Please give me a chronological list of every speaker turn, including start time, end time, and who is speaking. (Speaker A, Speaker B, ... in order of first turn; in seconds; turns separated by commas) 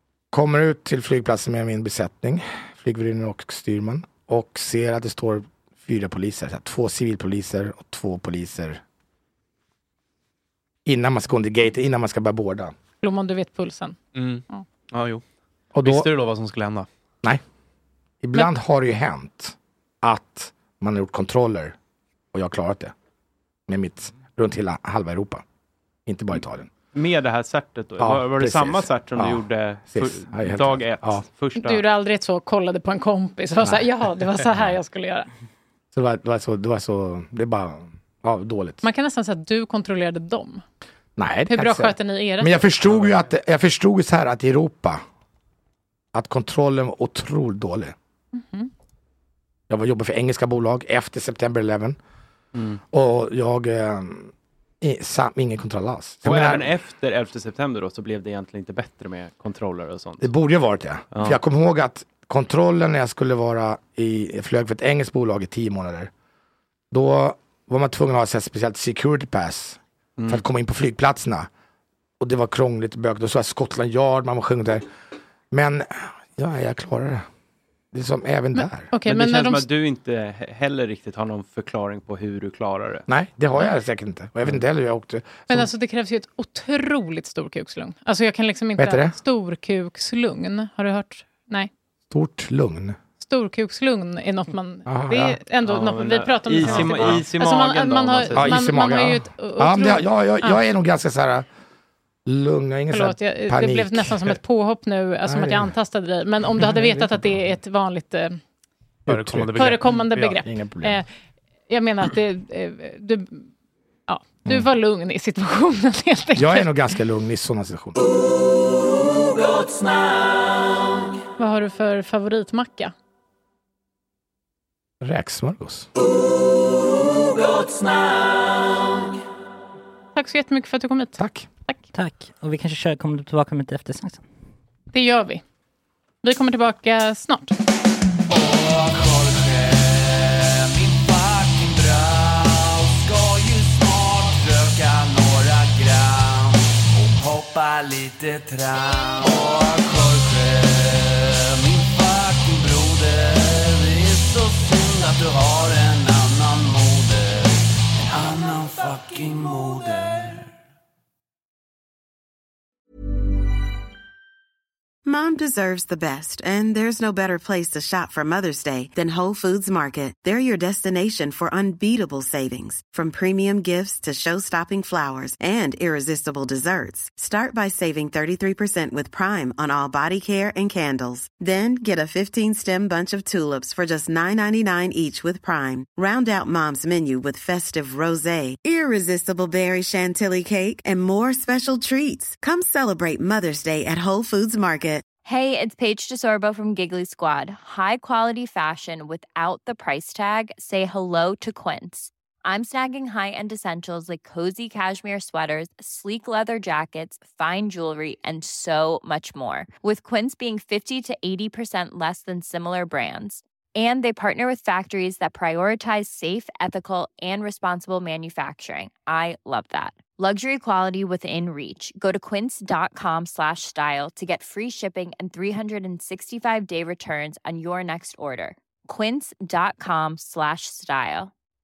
Speaker A: 0.3-8.8, Speaker A: 10.8-12.8, Speaker B: 13.0-14.0, Speaker C: 14.1-15.2, Speaker A: 15.7-16.1, Speaker C: 15.8-16.9, Speaker A: 18.2-21.8, Speaker A: 22.3-22.9, Speaker A: 23.7-25.4, Speaker A: 26.1-26.7, Speaker D: 26.9-31.8, Speaker A: 28.0-31.2, Speaker B: 31.6-35.3, Speaker A: 33.6-33.9, Speaker A: 35.9-38.8, Speaker B: 38.8-40.6, Speaker A: 41.2-45.0, Speaker B: 41.5-42.7, Speaker A: 46.1-48.0, Speaker B: 48.3-48.7, Speaker A: 49.7-52.0, Speaker D: 52.5-52.8, Speaker A: 52.9-56.7, Speaker D: 56.2-60.3, Speaker A: 60.2-66.1, Speaker D: 61.1-61.4, Speaker A: 66.9-71.5, Speaker D: 70.2-70.4, Speaker A: 72.2-74.9, Speaker A: 75.5-77.3, Speaker A: 77.9-78.9, Speaker B: 78.6-79.7, Speaker D: 79.1-83.1, Speaker A: 83.1-85.7, Speaker B: 85.5-91.7, Speaker A: 88.8-89.2, Speaker A: 92.1-93.0, Speaker B: 93.2-100.6, Speaker A: 94.9-95.4, Speaker D: 95.7-98.6, Speaker A: 96.6-97.3, Speaker A: 98.3-101.5, Speaker A: 102.3-104.4, Speaker B: 102.9-108.4, Speaker A: 105.3-105.8, Speaker A: 106.6-107.2, Speaker A: 109.1-111.0, Speaker C: 109.1-110.4, Speaker B: 109.5-111.1, Speaker B: 111.7-113.5, Speaker B: 114.1-116.7, Speaker A: 116.4-118.0, Speaker E: 118.0-121.2, Speaker B: 121.4-122.9, Speaker A: 125.0-125.9, Speaker E: 126.1-129.2, Speaker B: 130.2-131.9, Speaker A: 131.2-131.5, Speaker F: 131.9-134.2, Speaker B: 134.9-135.4, Speaker B: 136.2-137.6, Speaker E: 138.3-160.5, Speaker G: 165.1-195.1, Speaker H: 195.2-231.3